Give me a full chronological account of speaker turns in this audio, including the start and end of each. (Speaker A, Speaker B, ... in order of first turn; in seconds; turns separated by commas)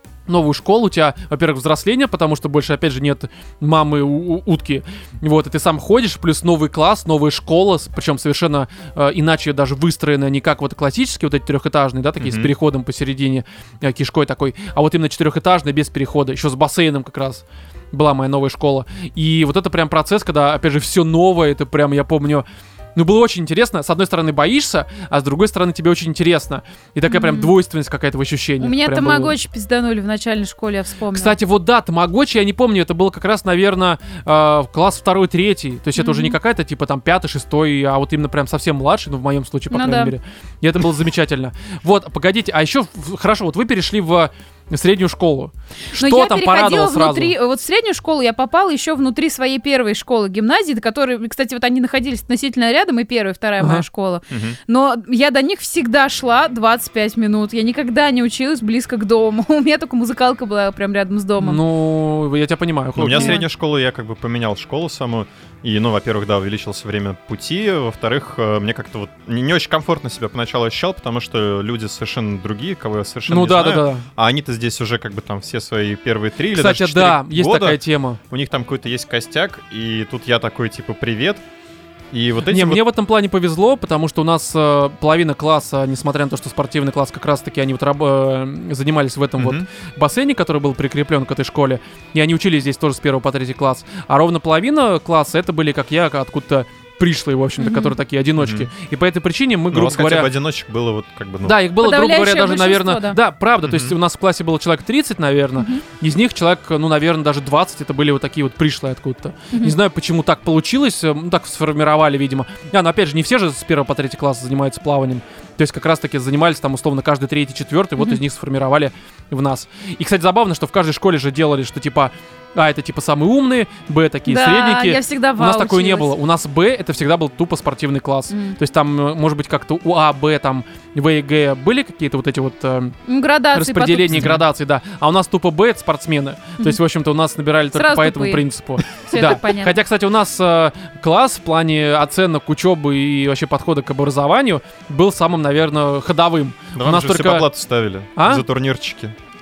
Speaker A: 0.3-29.3, Speaker B: 12.2-12.5, Speaker C: 27.1-27.5, Speaker C: 28.6-31.4, Speaker A: 31.1-47.3, Speaker C: 36.0-36.4, Speaker C: 39.7-40.1, Speaker C: 45.9-61.6, Speaker A: 53.6-53.8, Speaker B: 54.3-54.6, Speaker A: 61.4-63.4, Speaker B: 63.0-81.4, Speaker C: 63.1-63.4, Speaker A: 73.3-74.0, Speaker A: 76.5-78.2, Speaker B: 82.1-82.8, Speaker A: 82.5-100.3, Speaker B: 89.4-89.7, Speaker C: 97.6-97.9, Speaker B: 98.4-98.7, Speaker B: 99.7-101.6, Speaker A: 101.4-132.9, Speaker C: 101.8-103.2, Speaker B: 103.6-104.0, Speaker C: 105.6-105.8, Speaker C: 109.5-109.8, Speaker C: 124.2-126.1, Speaker C: 128.3-128.6, Speaker C: 133.1-134.4, Speaker A: 133.5-147.5, Speaker B: 134.1-134.4, Speaker C: 137.7-139.8, Speaker B: 146.7-149.1, Speaker A: 148.2-148.4